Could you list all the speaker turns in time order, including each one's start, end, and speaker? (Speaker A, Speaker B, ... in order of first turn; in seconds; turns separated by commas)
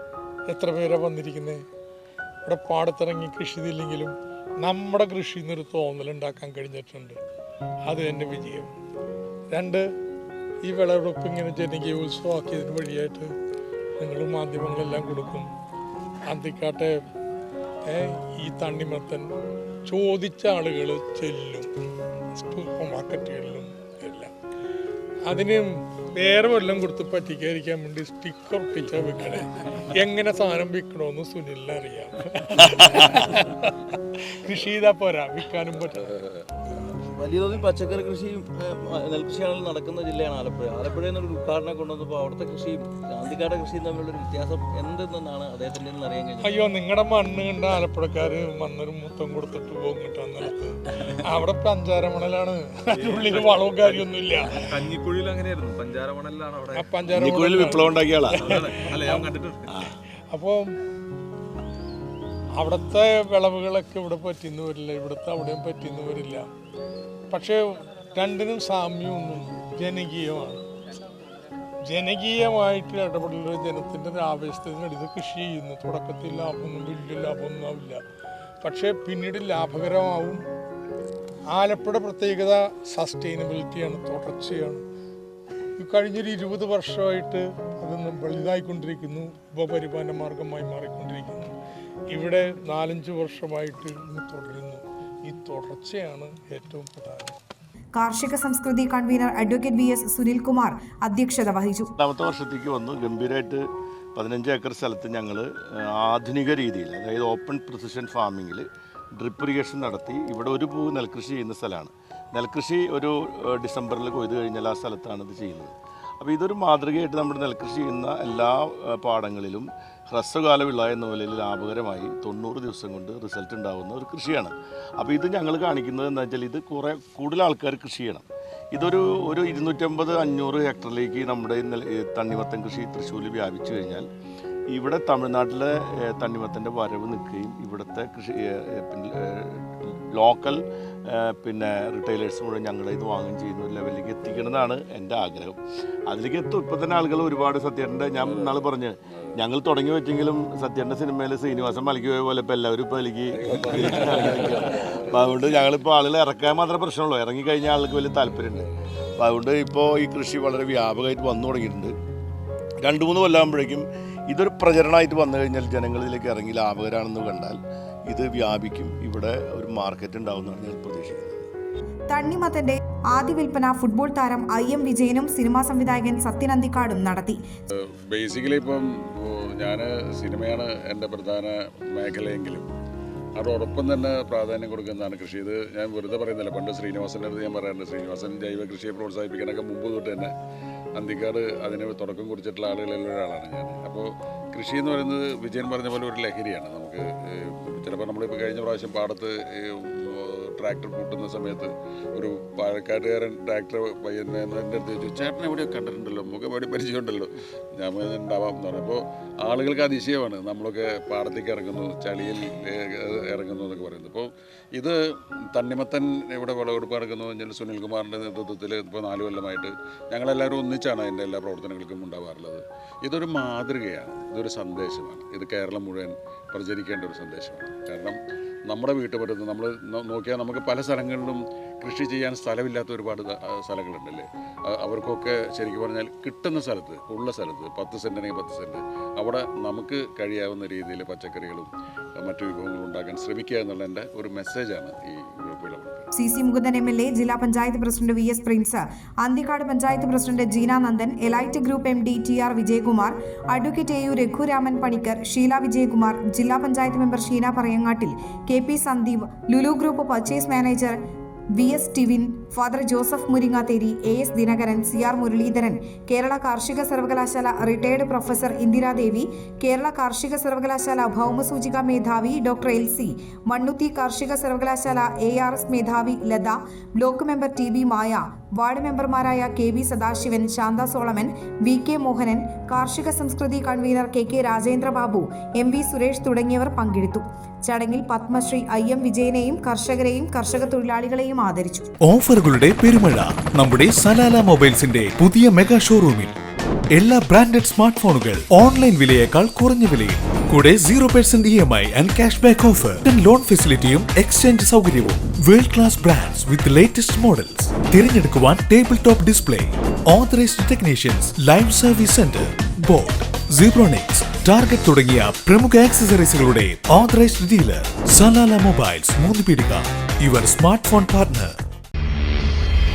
Speaker A: 0.5-1.6, Speaker A: 2.5-7.2, Speaker A: 7.9-8.7, Speaker A: 9.5-9.8, Speaker A: 10.6-13.3, Speaker A: 14.0-15.5, Speaker A: 16.3-16.9, Speaker A: 17.9-19.3, Speaker A: 19.9-21.7, Speaker A: 22.4-24.3, Speaker A: 25.3-33.7, Speaker A: 34.4-36.2, Speaker B: 37.1-46.6, Speaker A: 46.4-55.1, Speaker C: 53.0-54.1, Speaker C: 54.7-57.2, Speaker B: 56.0-56.8, Speaker A: 56.7-59.4, Speaker D: 57.1-58.5, Speaker B: 58.5-59.6, Speaker D: 59.7-59.9, Speaker A: 60.3-60.7, Speaker A: 62.6-66.5, Speaker A: 67.3-70.6, Speaker A: 71.9-78.0, Speaker A: 78.6-80.4, Speaker A: 81.5-84.8, Speaker A: 85.8-91.5, Speaker A: 92.1-97.3, Speaker E: 98.0-101.9, Speaker D: 102.0-108.7, Speaker D: 109.2-134.1, Speaker D: 134.7-145.6, Speaker D: 146.1-161.9, Speaker F: 148.2-148.6, Speaker F: 153.3-155.7, Speaker D: 162.8-171.5, Speaker E: 172.1-177.4, Speaker F: 177.8-182.7, Speaker F: 183.4-190.3, Speaker F: 191.0-215.0, Speaker F: 215.6-228.2, Speaker F: 228.7-246.1, Speaker E: 246.1-261.0, Speaker E: 261.6-291.9, Speaker G: 292.0-296.4, Speaker G: 296.9-321.6